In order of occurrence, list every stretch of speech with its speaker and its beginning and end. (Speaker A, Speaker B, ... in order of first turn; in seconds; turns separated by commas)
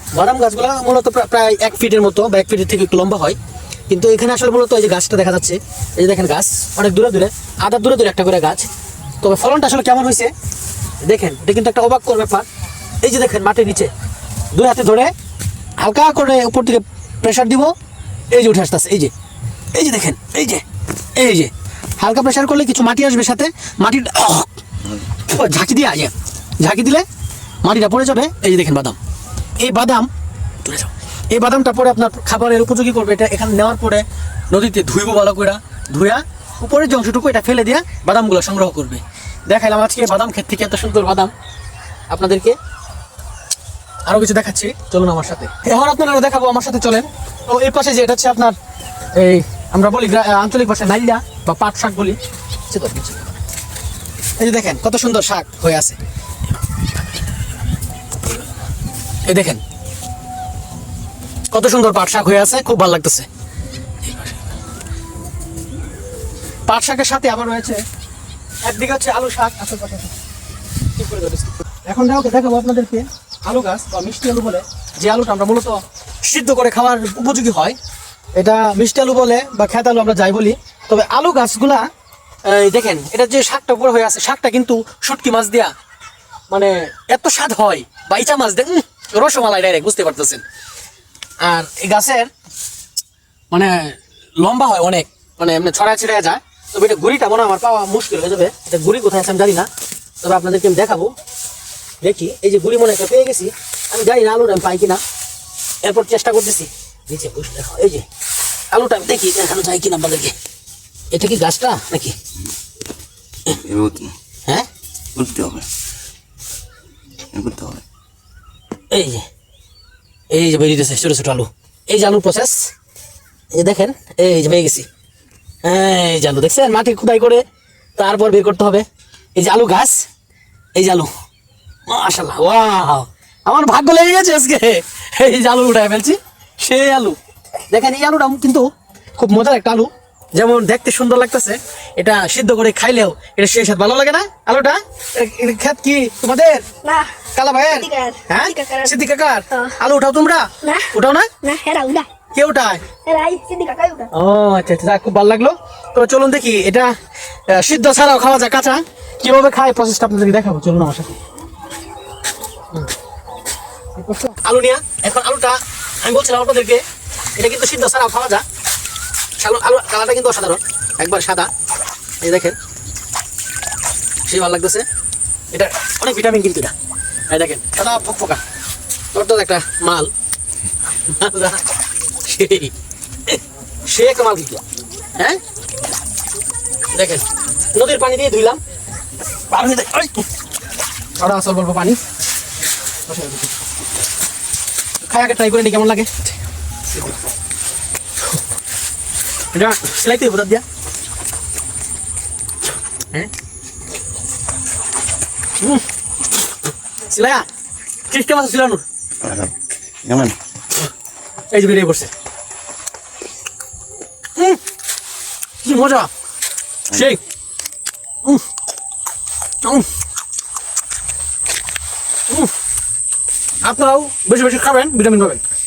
Speaker A: 0.1-3.4, Speaker A: 3.9-8.7, Speaker A: 9.2-10.3, Speaker A: 11.0-12.4, Speaker A: 13.0-13.9, Speaker A: 14.5-15.1, Speaker A: 15.8-17.7, Speaker A: 18.3-19.1, Speaker A: 19.7-20.6, Speaker A: 21.1-24.5, Speaker A: 25.2-27.1, Speaker A: 27.6-29.0, Speaker A: 29.6-30.1, Speaker A: 30.6-41.3, Speaker A: 42.1-42.6, Speaker A: 44.0-48.5, Speaker A: 49.1-53.3, Speaker A: 54.4-56.0, Speaker A: 59.2-59.6, Speaker A: 61.5-63.2, Speaker A: 64.0-64.3, Speaker A: 66.7-67.8, Speaker A: 68.6-70.1, Speaker A: 71.0-77.8, Speaker A: 78.3-81.9, Speaker A: 82.4-85.7, Speaker A: 86.5-90.4, Speaker A: 91.4-92.3, Speaker A: 93.5-99.7, Speaker A: 100.2-101.1, Speaker A: 102.0-105.0, Speaker A: 105.8-108.0, Speaker A: 108.7-110.3, Speaker A: 111.1-112.2, Speaker B: 113.6-114.1, Speaker B: 115.2-115.7, Speaker B: 117.3-117.8, Speaker A: 118.9-119.3, Speaker A: 120.3-122.7, Speaker A: 123.5-124.8, Speaker A: 125.6-127.4, Speaker A: 128.0-130.1, Speaker A: 130.7-131.1, Speaker A: 131.9-137.2, Speaker A: 137.7-146.7, Speaker C: 146.8-147.2, Speaker A: 147.3-151.3, Speaker C: 147.7-149.0, Speaker C: 150.6-152.1, Speaker A: 152.3-152.8, Speaker C: 153.0-154.1, Speaker A: 154.1-156.9, Speaker A: 157.5-161.2, Speaker A: 164.0-166.8, Speaker A: 167.3-168.4, Speaker A: 169.4-171.5, Speaker A: 172.2-172.6, Speaker A: 174.2-174.8, Speaker A: 175.5-176.7, Speaker A: 177.3-178.4, Speaker A: 179.1-180.1, Speaker A: 181.1-181.7, Speaker A: 182.2-182.7, Speaker A: 183.3-184.6, Speaker A: 186.9-188.6, Speaker A: 189.5-190.2, Speaker A: 191.2-192.0, Speaker A: 193.1-193.5, Speaker A: 195.0-196.3, Speaker A: 199.5-200.6, Speaker A: 207.1-207.4, Speaker A: 208.1-208.8, Speaker B: 209.2-210.4, Speaker A: 211.5-212.1, Speaker A: 215.6-216.1, Speaker A: 216.9-217.2, Speaker A: 222.3-222.5, Speaker A: 223.6-225.4